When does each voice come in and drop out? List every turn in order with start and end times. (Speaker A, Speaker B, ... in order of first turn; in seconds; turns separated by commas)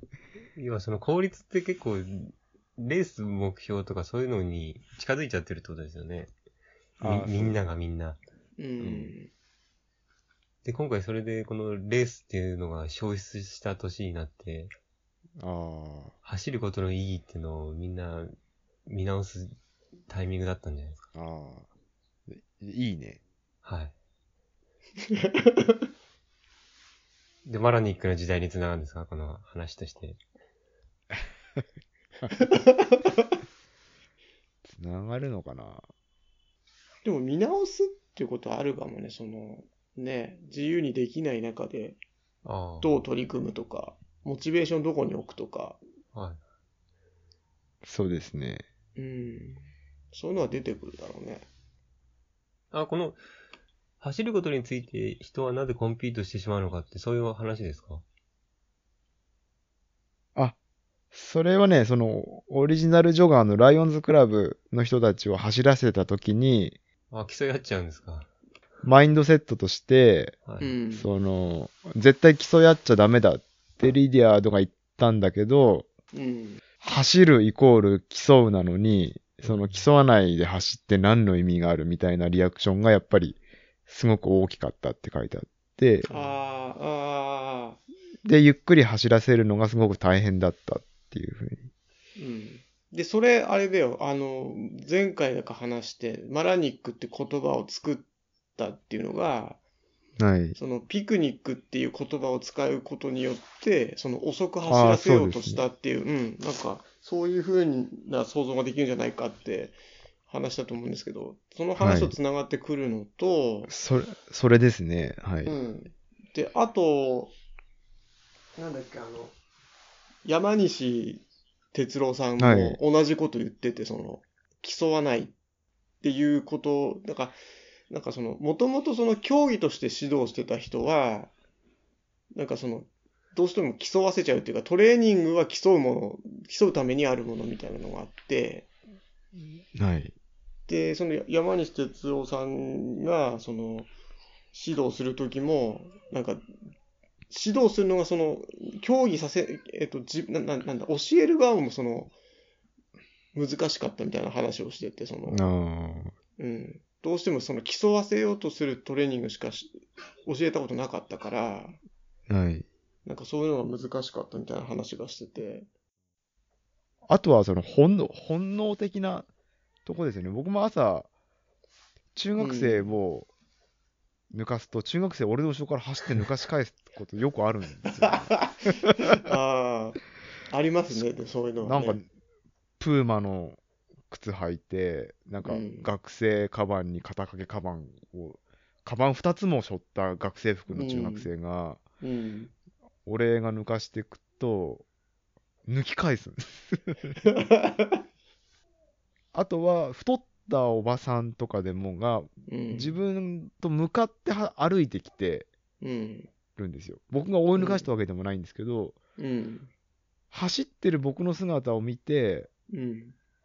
Speaker A: 0.6-6.3, Speaker A: 7.0-8.2, Speaker B: 7.0-7.6, Speaker C: 8.6-9.3, Speaker B: 8.8-9.1, Speaker A: 10.6-14.7, Speaker B: 15.4-16.1, Speaker A: 16.2-19.6, Speaker A: 20.1-21.1, Speaker B: 21.1-21.7, Speaker B: 22.3-23.2, Speaker A: 23.6-23.9, Speaker C: 25.1-25.8, Speaker A: 27.4-30.2, Speaker C: 32.4-33.3, Speaker B: 34.6-35.9, Speaker C: 37.0-42.0, Speaker A: 42.4-42.9, Speaker C: 42.8-45.8, Speaker A: 46.1-46.4, Speaker B: 47.8-48.6, Speaker C: 49.0-51.5, Speaker A: 52.7-53.2, Speaker A: 54.0-58.0, Speaker B: 61.1-66.8, Speaker A: 67.1-68.3, Speaker B: 68.8-70.4, Speaker A: 70.5-70.7, Speaker C: 70.6-71.1, Speaker B: 70.9-75.9, Speaker C: 76.1-76.6, Speaker B: 76.8-86.1, Speaker A: 79.4-79.8, Speaker C: 86.1-87.8, Speaker B: 88.2-91.7, Speaker C: 92.2-99.6, Speaker B: 100.2-100.6, Speaker C: 100.5-109.8, Speaker B: 104.7-105.6, Speaker C: 110.3-113.7, Speaker B: 111.8-112.1, Speaker B: 113.7-115.5, Speaker C: 115.5-117.3, Speaker C: 118.6-119.3, Speaker C: 120.2-125.3, Speaker B: 122.4-122.8, Speaker C: 126.0-127.4, Speaker C: 127.9-131.3, Speaker C: 132.3-138.7, Speaker B: 139.7-140.1, Speaker C: 140.7-143.9, Speaker C: 144.5-146.5, Speaker C: 147.3-152.1, Speaker C: 153.3-155.4, Speaker B: 155.3-156.1, Speaker C: 156.4-161.8, Speaker B: 162.3-162.7, Speaker C: 163.0-165.7, Speaker B: 167.1-169.3, Speaker B: 169.8-171.1, Speaker B: 172.1-173.3, Speaker C: 172.4-172.9, Speaker B: 174.3-178.7, Speaker C: 178.0-182.0, Speaker B: 181.6-182.1, Speaker B: 182.8-191.8, Speaker C: 185.4-185.9, Speaker C: 190.7-191.3, Speaker C: 192.0-192.5, Speaker B: 193.0-194.8, Speaker B: 195.7-197.2, Speaker C: 197.2-198.0, Speaker B: 199.3-205.5, Speaker C: 202.5-203.0, Speaker C: 205.8-206.3, Speaker B: 206.6-208.9, Speaker C: 207.6-207.9, Speaker C: 209.2-209.7, Speaker B: 210.3-212.5, Speaker C: 212.7-213.1